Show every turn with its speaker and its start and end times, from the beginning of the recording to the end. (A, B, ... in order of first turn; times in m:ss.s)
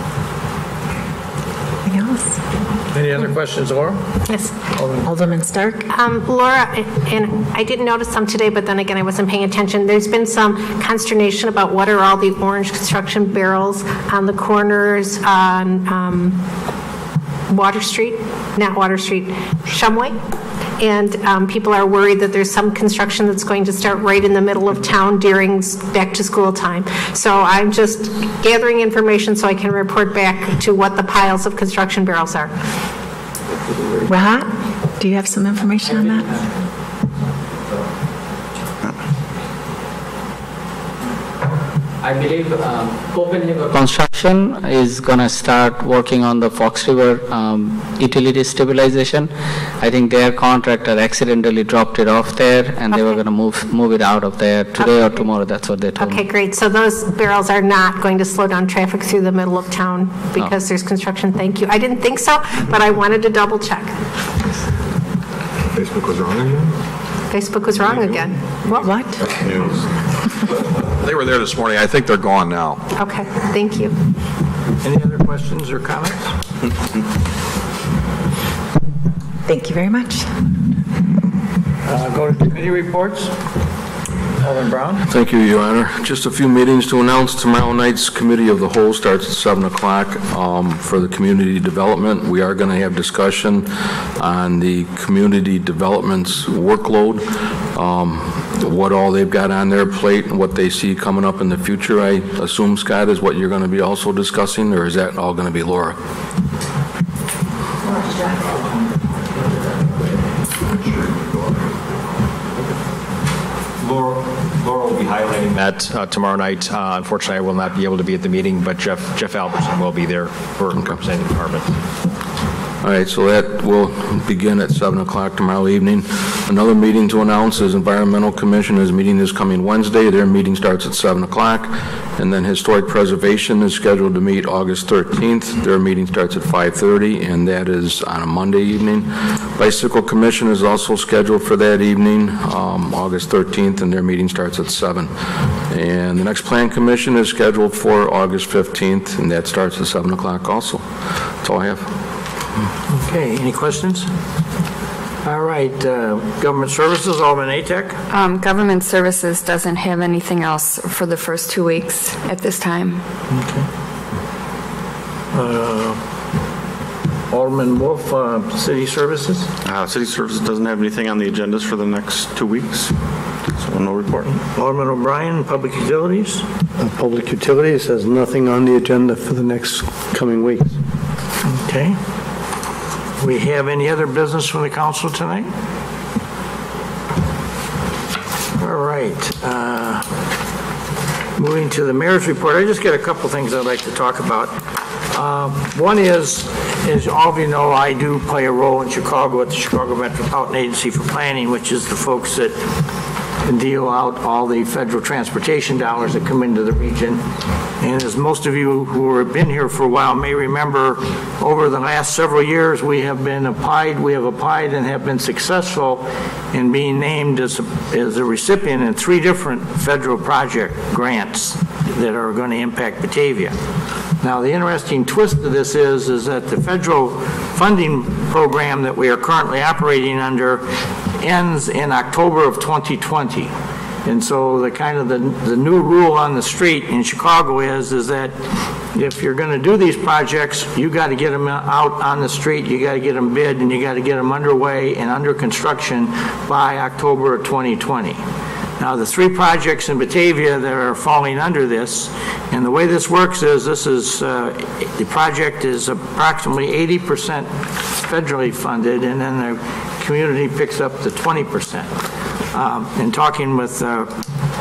0:01.9-0:02.4 A
0:02.9-0:04.0 B
0:04.3-0:04.5 C
0:04.8-0:05.0 B
0:05.0-0:05.9 A
0:05.9-0:16.4 C
0:17.5-0:20.2 C
0:20.8-0:32.5 C
0:34.1-0:36.5 A
0:42.0-0:49.3 D
0:49.8-0:56.2 D
0:52.9-0:53.2 C
0:54.8-0:55.2 C
0:56.0-1:04.0 C
1:07.3-1:08.9 C
1:08.8-1:09.3 A
1:10.8-1:12.8 E
1:13.0-1:14.0 C
1:14.8-1:16.3 B
1:19.5-1:20.3 A
1:21.9-1:23.3 B
1:24.4-1:25.1 B
1:25.1-1:46.0 F
1:53.8-2:01.7 G
2:02.8-2:25.1 F
2:25.7-2:30.8 F
2:31.4-2:31.9 F
2:33.0-2:34.1 B
2:35.2-2:38.0 B
2:38.1-2:43.0 H
2:43.3-2:43.6 B
2:45.3-2:46.0 B
2:47.3-2:49.5 B
2:49.6-2:52.9 I
2:53.5-2:54.3 I
2:54.3-2:56.4 B
2:56.8-3:00.7 J
3:01.5-3:02.0 B
3:03.2-3:05.5 B
3:08.6-3:10.0 B
3:11.4-3:14.6 B
3:15.1-3:22.6 B
3:23.4-3:27.2 B
3:27.8-3:43.5 B
3:44.2-3:50.6 B
3:51.2-3:53.5 B
3:54.0-3:58.3 B
3:58.9-4:08.2 B
4:08.8-4:21.9 B
4:22.5-4:24.1 B